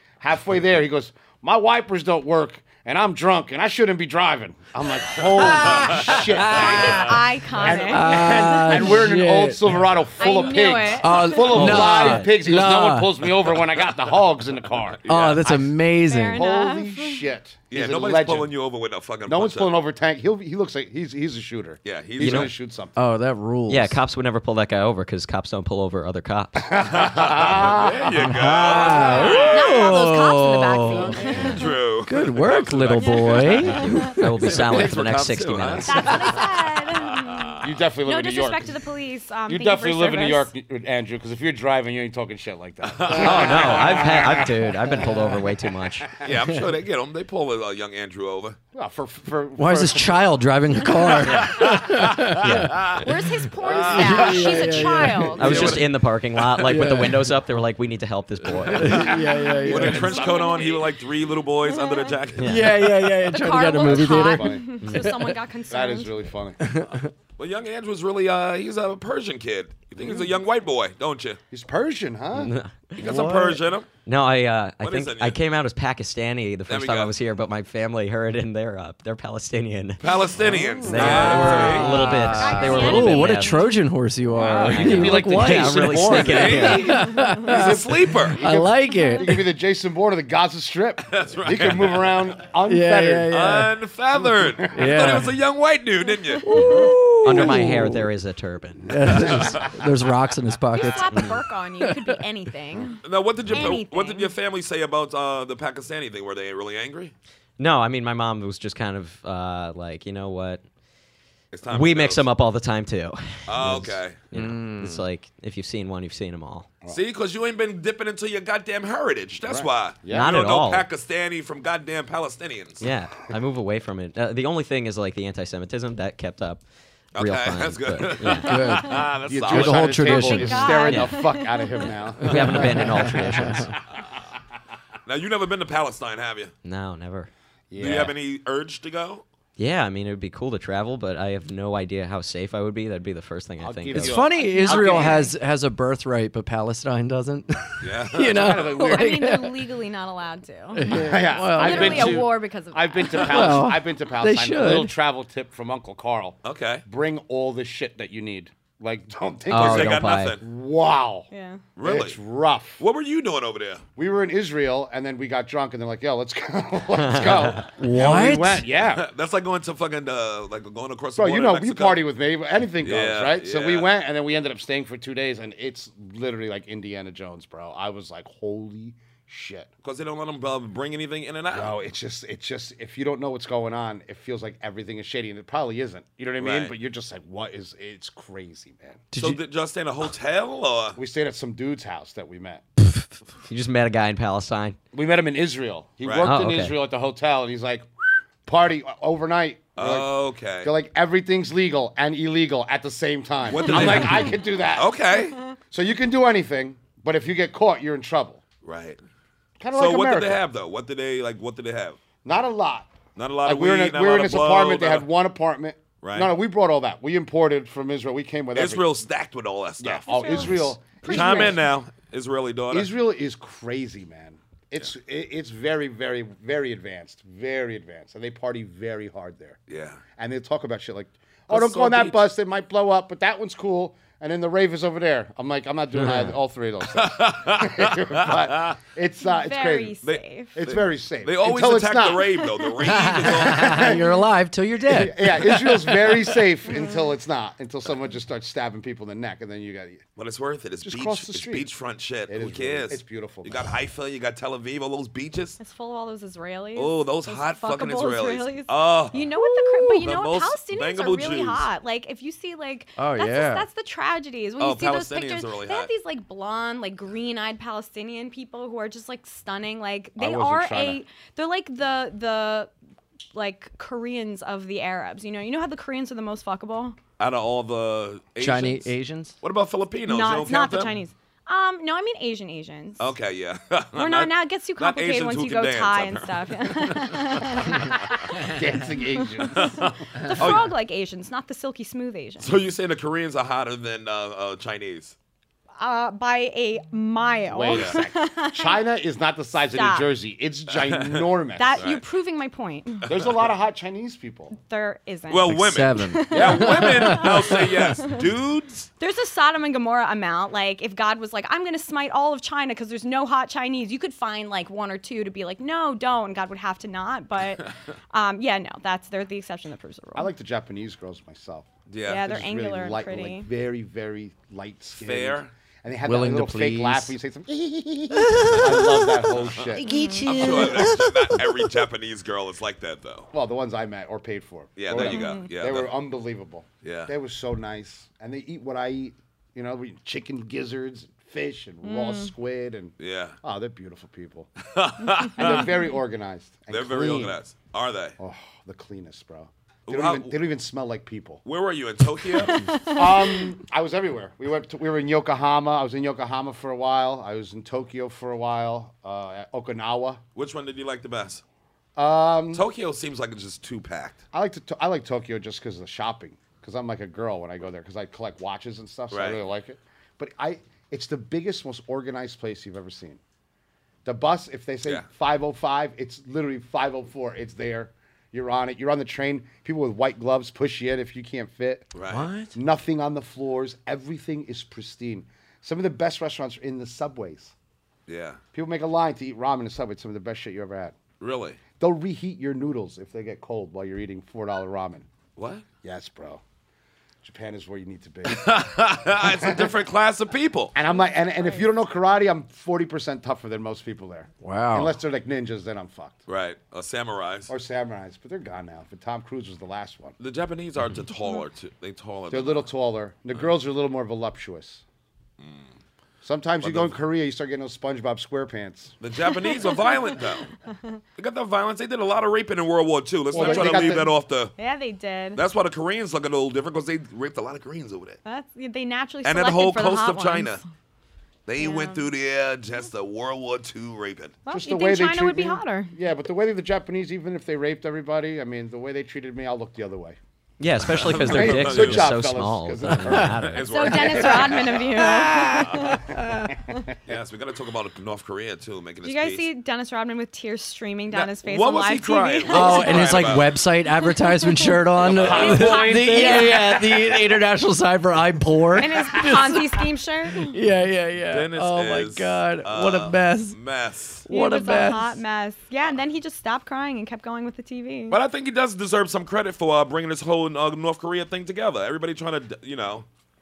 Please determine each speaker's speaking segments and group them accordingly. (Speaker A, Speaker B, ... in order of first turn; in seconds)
Speaker A: 0.2-15.7, 16.3-18.5, 19.3-23.0, 26.6-29.5, 37.6-38.8, 39.5-46.3, 48.7-50.3, 58.8-60.8, 63.7-64.8, 65.7-66.6, 70.0-70.3, 71.5-72.5, 80.5-82.0, 84.4-93.3, 94.1-94.9, 119.4-120.3, 129.2-133.7, 137.7-138.1, 143.6-145.3, 148.2-149.3, 150.9-161.3, 161.8-162.8, 163.9-169.1, 171.2-179.7, 181.5-189.0, 191.0-192.6, 194.9-197.9, 198.4-204.9, 205.7-208.4, 209.6-210.4, 212.2-218.8, 219.8-221.6, 222.7-229.6, 230.2-240.0, 240.5-242.4, 243.3-244.2, 244.8-250.0, 250.8-251.7, 252.3-253.7, 270.2-271.0, 288.3-289.9, 297.5-301.8, 303.1-304.5, 320.1-329.9, 333.3-344.5, 345.3-347.4, 348.2-351.4, 352.8-360.2, 361.9-362.6, 364.3-373.2, 374.0-381.9, 382.5-387.5, 388.5-391.0, 391.8-395.1, 395.8-396.4, 397.2-398.5, 399.1-399.7, 400.7-406.2, 407.5-410.1, 412.3-414.8, 416.2-418.9, 423.3-424.1, 434.5-440.2, 440.9-444.7, 446.5-446.9, 455.1-456.9
Speaker B: 5.5-5.8, 15.0-15.5, 17.7-19.7, 21.8-22.5, 26.8-29.9, 31.2-37.5, 42.8-44.5, 46.1-48.6, 51.2-53.0, 53.6-56.1, 59.6-62.7, 67.4-71.4, 73.0-73.9, 74.8-75.4, 76.7-77.2, 80.0-82.0, 85.9-88.4, 91.0-92.3, 93.3-96.5, 99.1-99.7, 103.0-107.1, 111.5-112.2, 113.5-114.2, 116.9-122.8, 127.1-130.1, 135.1-136.5, 137.8-139.2, 147.8-148.7, 156.4-156.8, 159.5-160.4, 161.8-162.2, 162.8-163.8, 168.9-172.0, 172.8-173.9, 179.8-181.8, 186.4-186.7, 189.2-191.0, 196.0-196.3, 199.8-200.7, 203.4-205.4, 208.6-209.0, 209.7-212.0, 213.2-215.1, 216.0-216.3, 218.5-222.9, 229.7-230.0, 231.5-232.2, 236.9-238.7, 240.0-243.9, 250.2-255.6, 256.7-259.2, 260.0-261.6, 264.6-265.9, 277.2-280.9, 283.0-287.4, 289.5-290.7, 292.4-295.1, 300.7-302.0, 303.1-303.4, 305.3-308.9, 321.9-322.3, 324.9-325.5, 329.3-329.7, 330.2-333.3, 334.8-335.9, 336.8-337.1, 343.0-343.4, 344.6-345.7, 346.7-348.1, 349.9-350.4, 351.4-352.8, 360.3-361.4, 362.5-364.2, 369.1-369.4, 381.9-382.2, 388.1-388.4, 391.2-391.6, 395.4-395.6, 398.2-400.7, 406.3-407.5, 410.2-412.7, 415.4-415.6, 416.6-417.0, 419.0-420.5, 421.1-424.5, 425.3-428.2, 429.2-430.6, 431.5-434.4, 440.9-442.1, 443.4-445.0, 445.5-445.9, 447.1-449.4, 451.1-453.6, 455.1-455.6, 461.3-464.3, 468.1-473.1
Speaker C: 5.5-7.1, 7.6-9.8, 11.0-13.1, 15.1-16.4, 22.9-24.0, 27.7-35.7, 46.3-46.6, 49.6-53.1, 53.6-55.4, 56.5-57.4, 58.6-60.3, 62.4-65.3, 66.6-67.1, 73.0-73.6, 81.0-89.5, 92.7-93.7, 94.7-95.3, 96.5-98.0, 98.9-102.2, 114.3-115.0, 128.2-130.9, 132.2-133.7, 143.9-149.7, 150.7-152.3, 153.1-154.9, 167.8-168.6, 189.1-189.4, 235.9-236.3, 242.8-246.1, 263.0-263.7, 278.4-279.4, 305.4-307.7, 326.0-327.1, 328.2-329.2, 329.8-331.6, 382.1-382.5, 404.4-405.0, 445.2-446.5, 452.5-463.6, 464.2-465.2
Speaker D: 6.4-9.0, 10.2-12.2, 16.1-17.2, 28.9-31.7, 33.0-34.1, 35.8-40.5, 52.9-55.8, 59.9-60.8, 61.6-62.1, 63.2-66.2, 81.0-83.8, 88.9-89.2, 96.4-97.0, 100.7-104.3, 130.0-131.9, 144.3-145.3, 148.9-150.9, 151.5-153.6, 161.3-161.6, 220.0-221.6, 239.2-240.6, 242.4-242.7, 246.7-247.0, 255.6-272.7, 273.3-277.0, 280.1-283.1, 283.9-288.2, 289.5-292.5, 295.8-298.8, 299.7-300.1, 301.6-303.1, 304.5-308.1, 309.0-320.3, 322.0-323.5, 329.8-330.8, 335.0-335.5, 341.8-342.3, 352.4-353.5, 400.9-401.6, 419.5-420.0, 420.6-421.0, 423.4-425.4, 428.2-430.6, 431.6-432.1, 434.4-435.9, 443.7-446.0, 449.0-453.4, 454.3-456.8, 458.7-460.6, 464.3-468.2
Speaker E: 11.5-12.3, 22.2-22.5, 23.7-26.7, 33.7-36.2, 43.1-46.2, 52.4-52.8, 55.4-59.1, 62.4-62.7, 64.8-65.1, 72.3-73.1, 74.0-80.3, 80.8-83.7, 84.3-87.0, 96.5-99.1, 101.1-101.4, 107.6-110.6, 111.7-116.7, 120.1-120.9, 122.8-126.6, 127.1-128.7, 130.8-131.2, 132.2-133.7, 136.6-137.3, 139.6-144.3, 159.5-160.4, 166.9-167.6, 192.8-194.8, 196.2-196.8, 203.7-204.3, 440.6-443.8